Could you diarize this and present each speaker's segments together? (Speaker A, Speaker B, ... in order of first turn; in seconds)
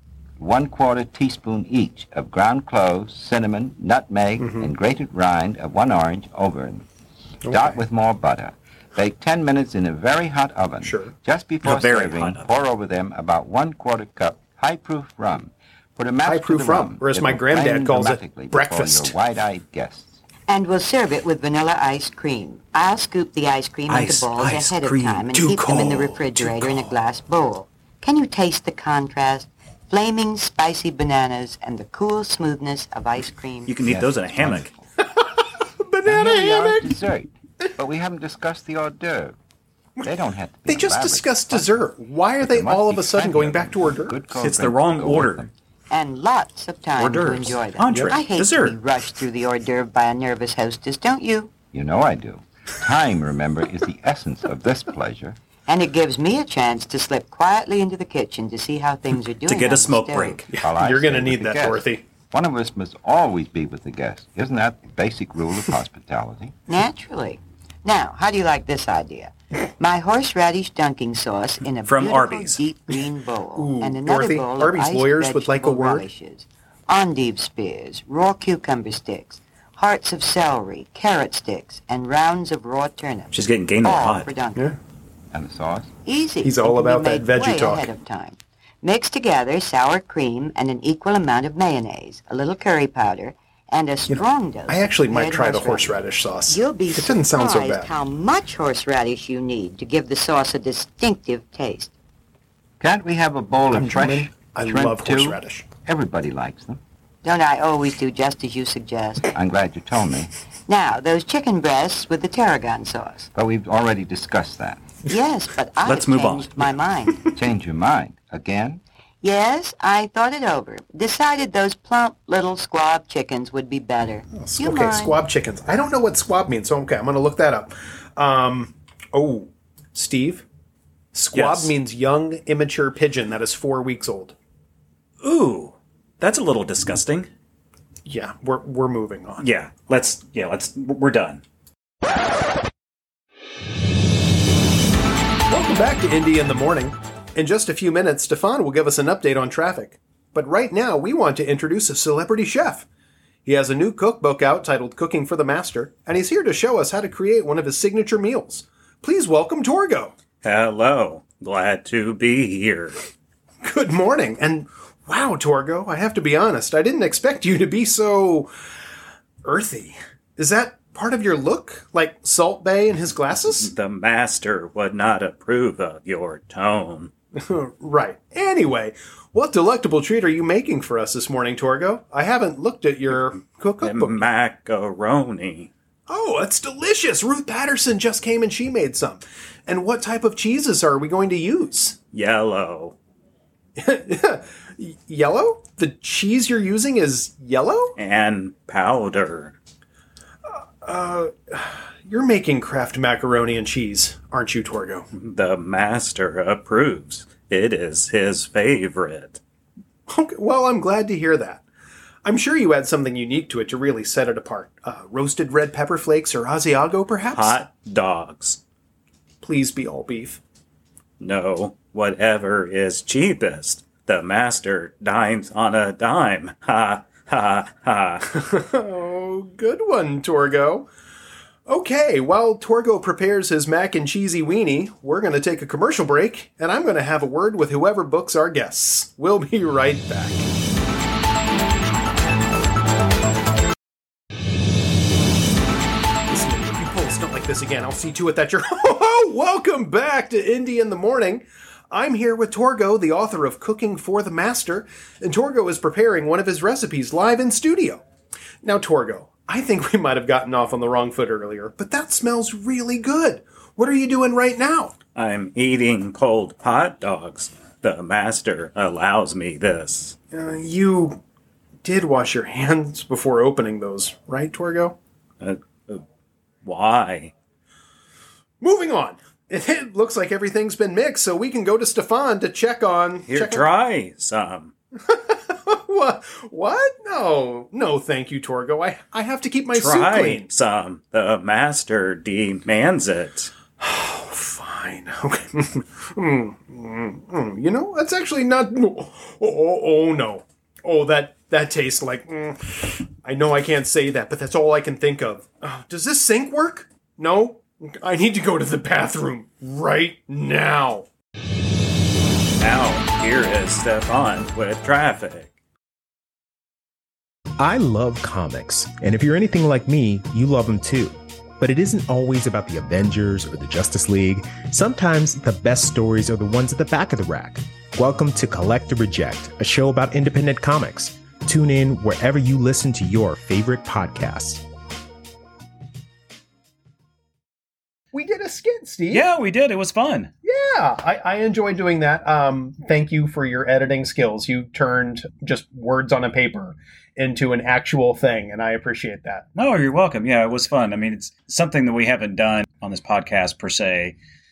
Speaker A: 0.4-6.8, 7.5-20.2, 33.8-34.8, 36.0-39.4, 40.0-45.5, 51.7-55.4, 60.6-66.5, 85.3-85.9, 102.8-106.8, 109.3-110.3, 113.3-114.8, 117.3-118.8
Speaker B: 4.4-4.7, 7.5-7.8, 10.8-11.1, 16.2-19.1, 25.6-26.9, 35.2-36.9, 40.6-44.1, 47.9-48.1, 60.5-62.0, 73.5-76.0, 86.4-87.9, 94.1-97.9, 103.7-105.7, 124.4-130.4, 131.1-134.3, 138.1-139.4, 145.5-152.8, 153.4-160.1, 163.6-168.5, 169.4-173.7, 177.3-184.2, 186.1-192.0, 193.8-197.9, 200.4-205.1, 210.1-211.6, 212.2-217.6, 219.4-220.4, 228.3-230.9, 231.7-240.5, 246.3-258.0, 258.6-264.9, 270.3-271.2, 271.8-274.9, 278.6-283.7, 285.0-290.5, 293.8-311.1, 338.1-339.3, 340.4-349.4
Speaker C: 11.6-12.5, 23.9-25.9, 33.7-34.7, 44.3-45.5, 47.0-48.8, 59.5-60.5, 71.8-72.6, 83.3-84.3, 115.8-116.8, 131.3-131.7, 135.2-137.3, 139.4-141.4, 160.4-163.0, 173.5-177.1, 183.8-185.7, 192.1-192.9, 197.9-199.6, 205.1-209.4, 217.3-218.6, 221.2-228.3, 265.1-270.1, 275.4-276.0, 276.6-277.3, 283.3-284.7, 289.7-293.5, 312.6-315.5, 339.1-340.3, 349.6-354.1
Speaker D: 20.5-33.7, 45.9-51.5, 55.6-60.4, 66.7-84.7, 86.0-101.9, 107.2-109.3, 110.7-113.3, 115.1-117.3, 119.2-125.2
Speaker E: 317.6-334.6